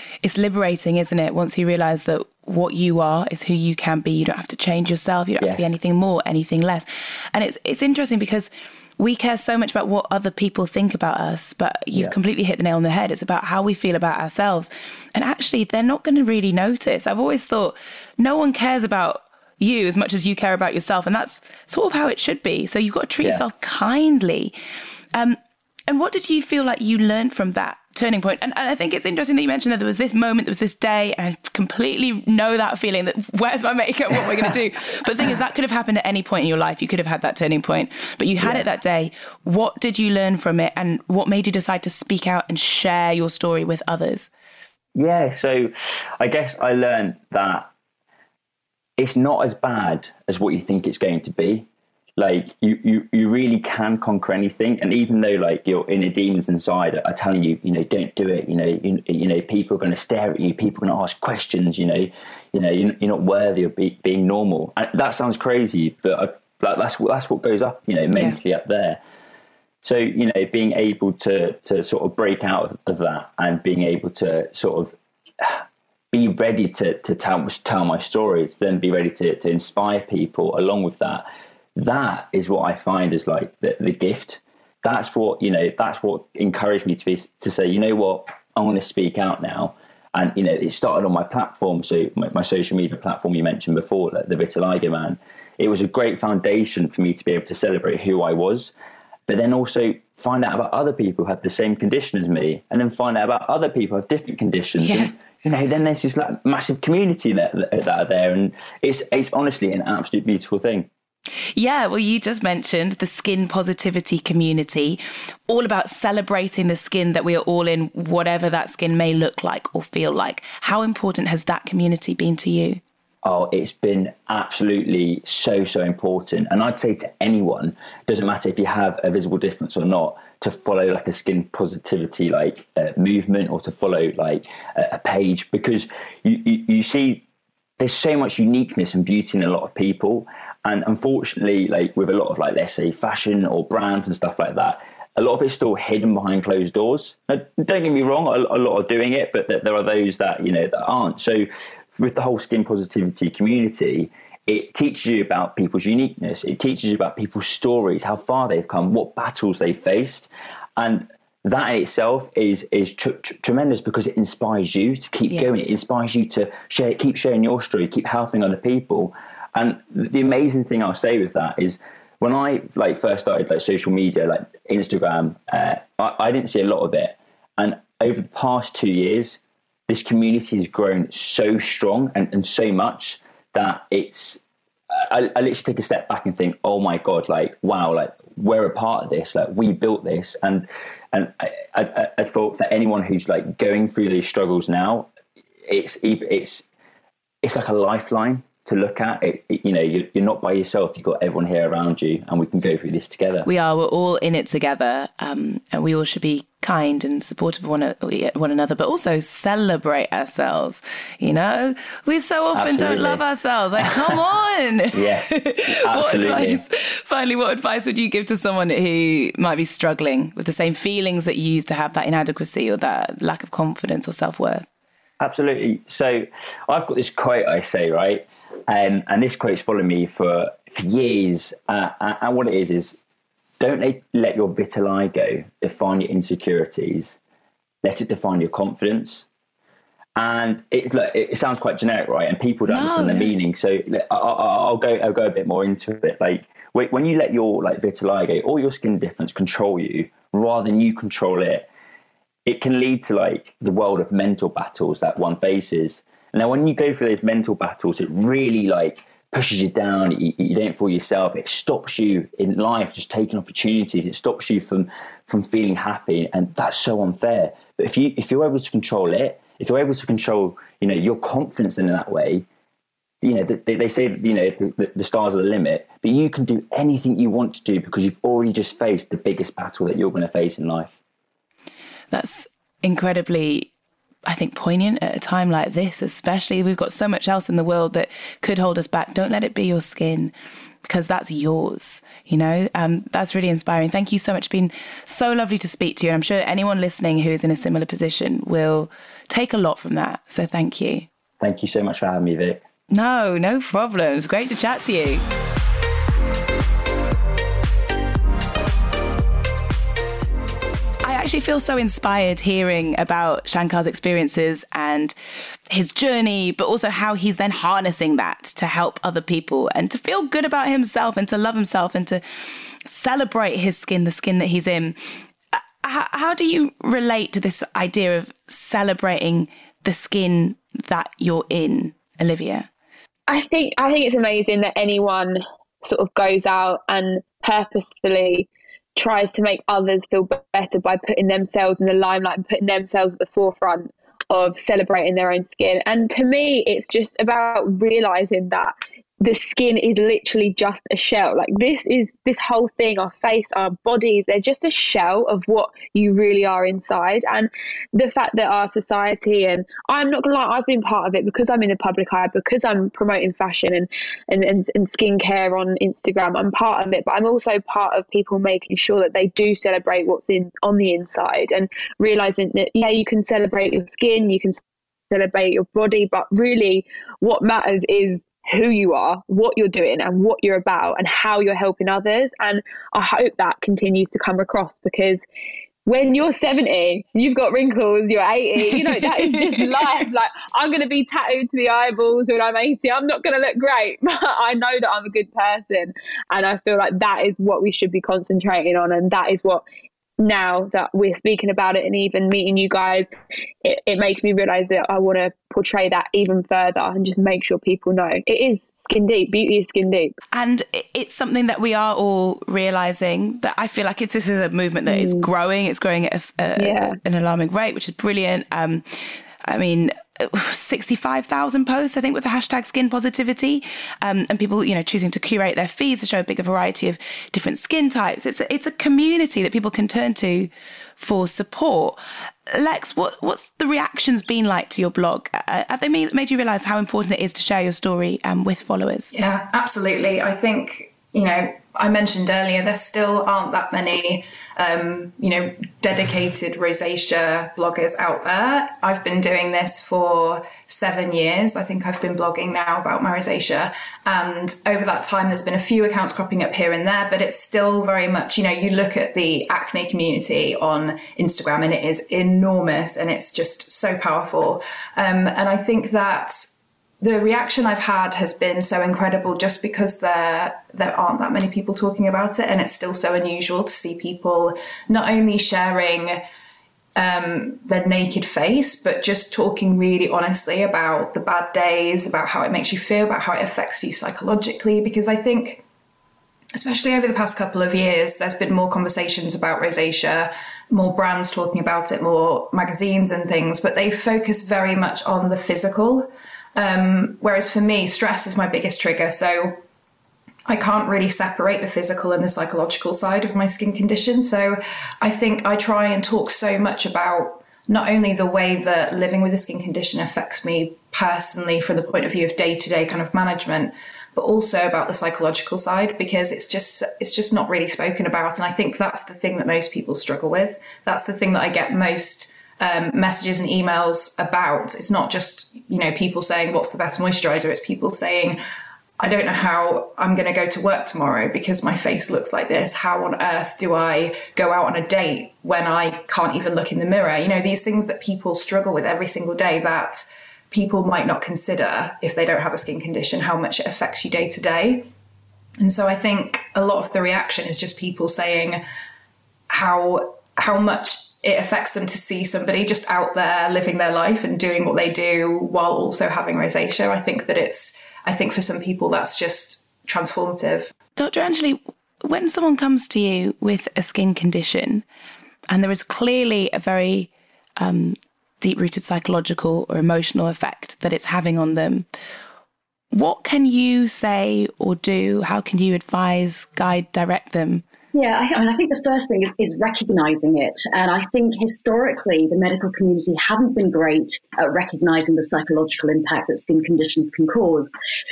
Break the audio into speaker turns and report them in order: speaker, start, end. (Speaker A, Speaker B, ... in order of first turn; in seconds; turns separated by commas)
Speaker A: 0.2-24.5, Speaker B: 5.4-5.7, Speaker A: 25.1-44.3, Speaker B: 38.4-38.7, Speaker B: 44.9-47.7, Speaker B: 49.0-69.0, Speaker A: 68.1-68.4, Speaker B: 69.8-81.2, Speaker B: 81.8-98.7, Speaker B: 99.3-110.9, Speaker A: 104.8-105.1, Speaker A: 111.5-122.8, Speaker B: 123.2-137.2, Speaker B: 137.8-184.4, Speaker B: 184.9-195.1, Speaker B: 195.7-196.6, Speaker B: 197.4-203.5, Speaker A: 203.4-224.7, Speaker B: 212.5-213.2, Speaker B: 213.8-214.2, Speaker B: 214.9-216.6, Speaker B: 225.2-233.0, Speaker B: 233.6-237.2, Speaker B: 237.8-239.2, Speaker B: 240.2-251.7, Speaker A: 242.7-243.3, Speaker B: 252.4-272.4, Speaker B: 273.2-280.9, Speaker A: 282.1-283.7, Speaker A: 284.3-290.3, Speaker A: 290.8-301.1, Speaker B: 301.4-302.6, Speaker A: 302.9-305.2, Speaker A: 311.0-315.1, Speaker A: 315.7-322.2, Speaker A: 322.9-325.0, Speaker A: 325.5-332.7, Speaker C: 333.3-385.2, Speaker C: 385.9-399.6, Speaker A: 388.8-389.9, Speaker C: 400.2-403.1, Speaker C: 403.6-410.1, Speaker A: 410.3-418.8, Speaker C: 414.9-415.3, Speaker C: 416.6-417.0, Speaker A: 419.4-432.0, Speaker A: 432.5-439.1, Speaker D: 439.1-476.2, Speaker D: 476.9-485.6, Speaker D: 486.6-499.6, Speaker D: 500.5-528.4, Speaker D: 529.0-544.9, Speaker D: 545.6-548.6, Speaker D: 549.5-560.7, Speaker A: 561.0-564.8, Speaker A: 565.5-571.9, Speaker A: 572.9-577.6, Speaker E: 577.9-587.7